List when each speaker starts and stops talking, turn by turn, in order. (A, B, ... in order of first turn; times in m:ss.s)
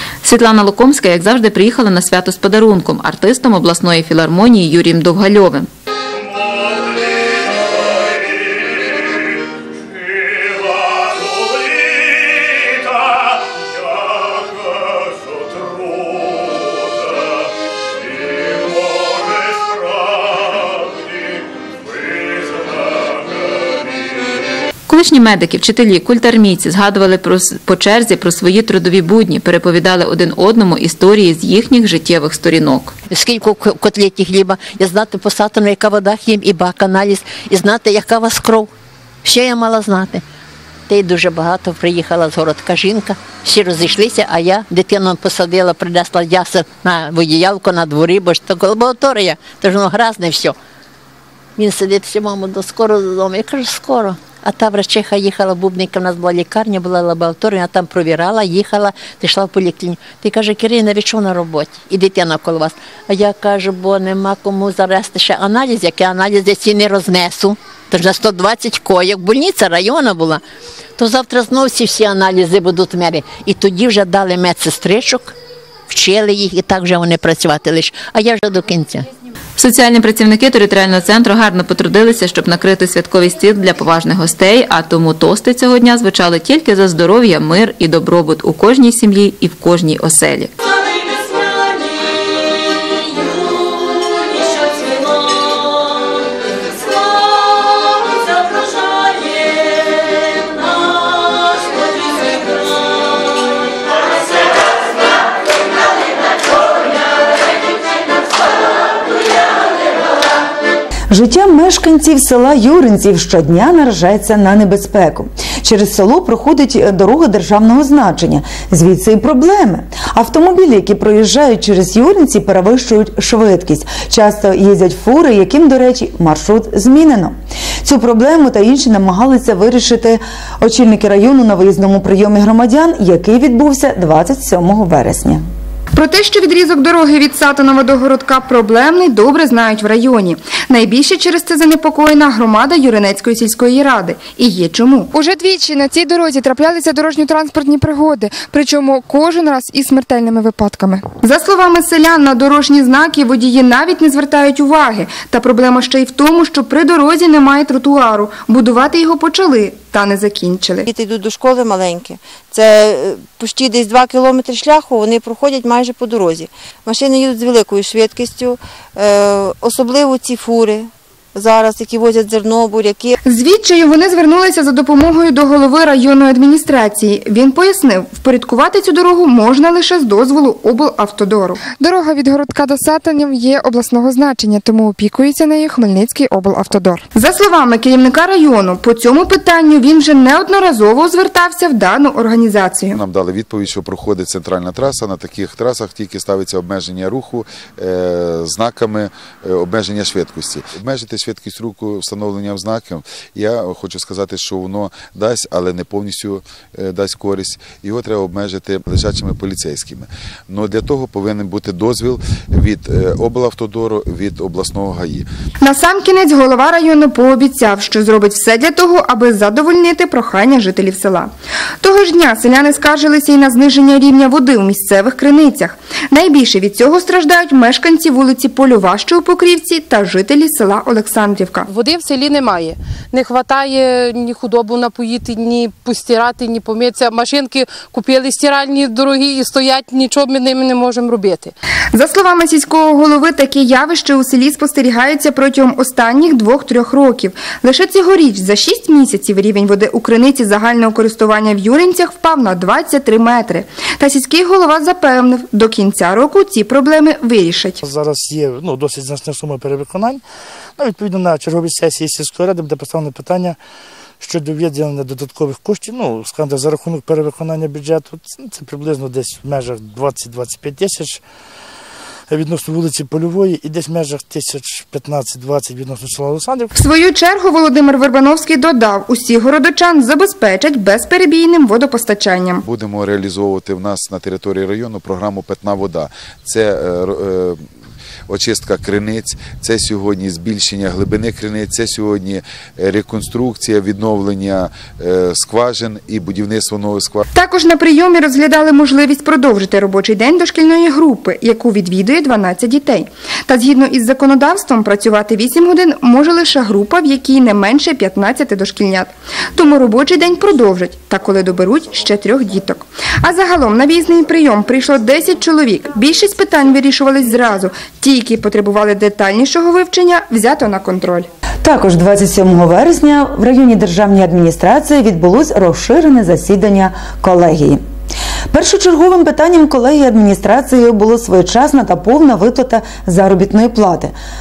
0:00.2-0:05.7 A
0:24.9-0:33.0 A
0:33.1-0:38.7 B
0:39.2-0:40.2 B
0:40.9-0:50.6 B
0:51.6-1:10.4 B
1:11.0-1:15.3 B
1:15.9-1:19.1 B
1:19.6-1:30.5 A
1:51.1-2:15.4 C
2:16.0-2:40.8 D
2:40.8-2:53.2 E
2:53.2-3:12.9 D
3:12.9-3:35.3 F
3:35.7-3:41.3 D
3:41.8-3:51.7 D
3:51.7-4:01.5 G
4:01.9-4:17.8 D
4:17.8-4:20.2 H
4:20.8-4:23.6 H
4:24.2-4:31.2 H
4:32.3-4:36.8 H
4:36.8-4:42.6 D
4:42.6-4:47.6 F
4:48.3-4:57.2 F
4:57.4-5:21.3 D
5:21.6-5:27.8 C
5:28.5-5:34.1 C